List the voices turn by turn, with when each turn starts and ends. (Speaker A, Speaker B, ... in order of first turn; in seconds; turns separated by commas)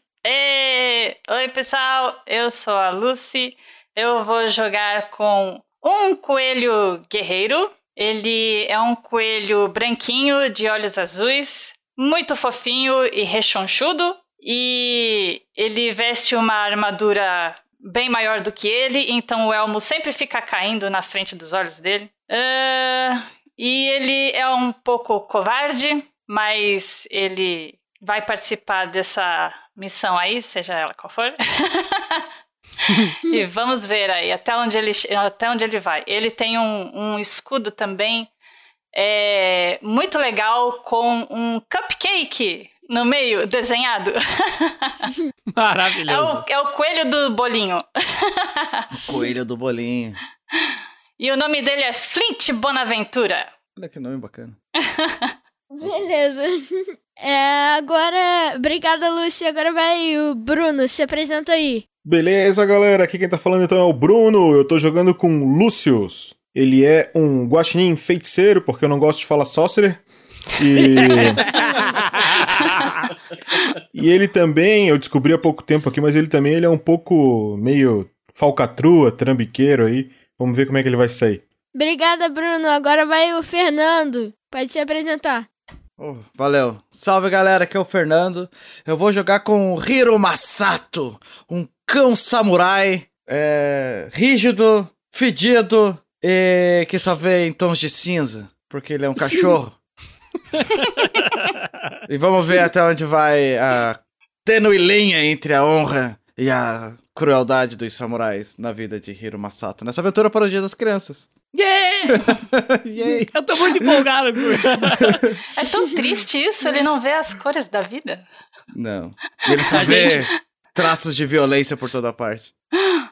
Speaker A: 0.2-32.2, Speaker A: 32.9-38.3, Speaker A: 38.9-45.1, Speaker B: 45.5-46.5, Speaker A: 46.0-48.9, Speaker C: 49.0-50.2, Speaker A: 51.2-53.5, Speaker C: 53.8-54.6, Speaker A: 54.8-55.3, Speaker D: 55.7-61.9, Speaker E: 62.0-70.0, Speaker E: 70.6-71.6, Speaker B: 71.0-72.4, Speaker E: 73.9-81.4, Speaker D: 81.7-85.5, Speaker C: 86.0-99.8, Speaker C: 102.1-111.3, Speaker B: 111.5-112.4, Speaker C: 112.1-115.3, Speaker B: 113.0-115.2, Speaker A: 115.5-118.3, Speaker C: 118.7-122.5, Speaker B: 119.7-120.2